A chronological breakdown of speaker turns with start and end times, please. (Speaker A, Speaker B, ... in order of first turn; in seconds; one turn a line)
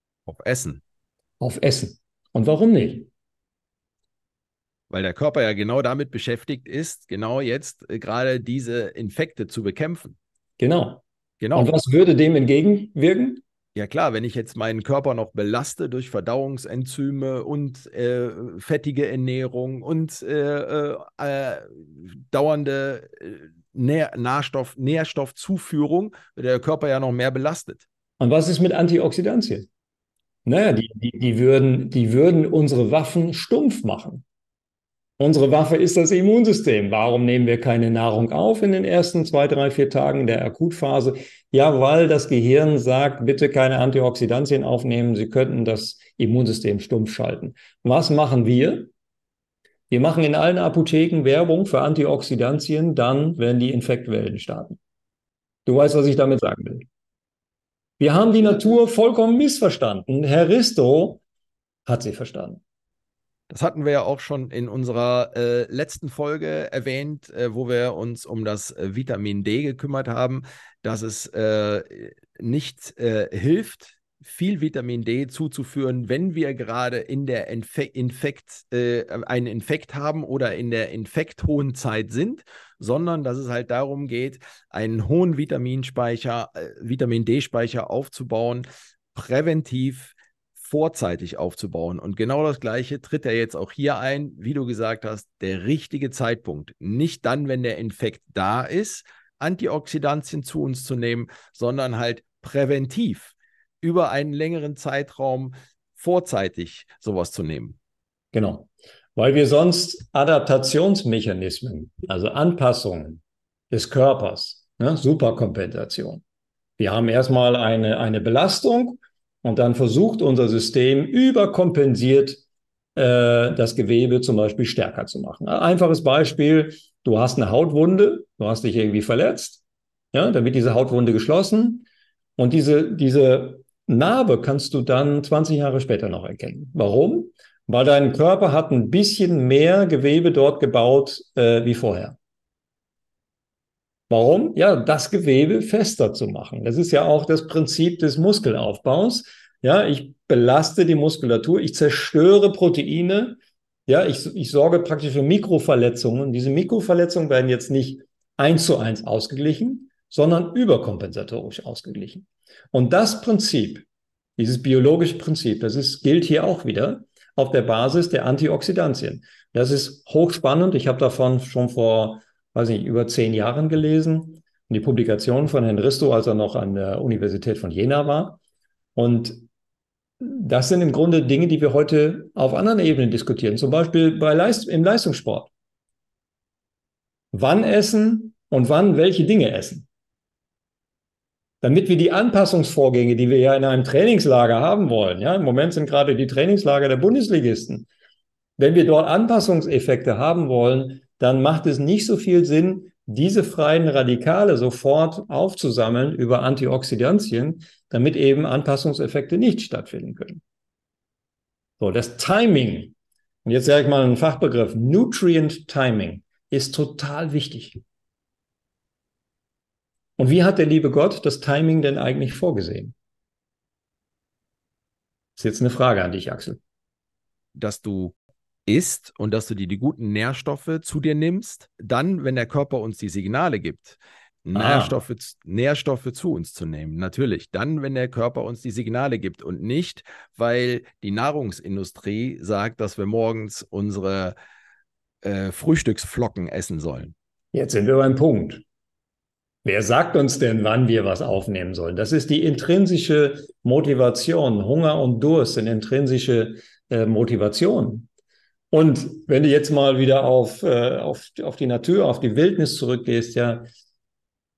Speaker A: 0.3-0.8
Speaker B: 1.4-3.1
Speaker A: 4.9-10.2
Speaker B: 10.6-11.0
Speaker A: 11.4-11.7
Speaker B: 11.6-13.4
Speaker A: 13.8-27.9
Speaker B: 28.2-29.7
Speaker B: 30.4-34.2
Speaker B: 35.2-48.9
Speaker B: 49.9-54.8
Speaker B: 55.7-56.9
Speaker B: 58.0-61.2
Speaker B: 61.9-62.6
Speaker A: 63.5-107.8
Speaker B: 108.3-116.2
Speaker B: 116.8-122.4
Speaker B: 123.0-131.9
Speaker B: 132.4-142.2
Speaker B: 144.1-163.8
Speaker B: 164.4-178.4
Speaker B: 178.9-179.4
Speaker B: 180.2-185.5
Speaker B: 187.3-189.9
Speaker B: 191.6-197.9
Speaker B: 198.6-210.4
Speaker B: 211.8-217.8
Speaker B: 220.2-222.9
Speaker B: 225.4-226.6
Speaker A: 227.6-228.2
Speaker A: 228.7-244.3
Speaker B: 234.6-235.0
Speaker A: 245.2-247.2
Speaker B: 247.5-248.6
Speaker B: 249.7-258.1
Speaker B: 258.7-263.7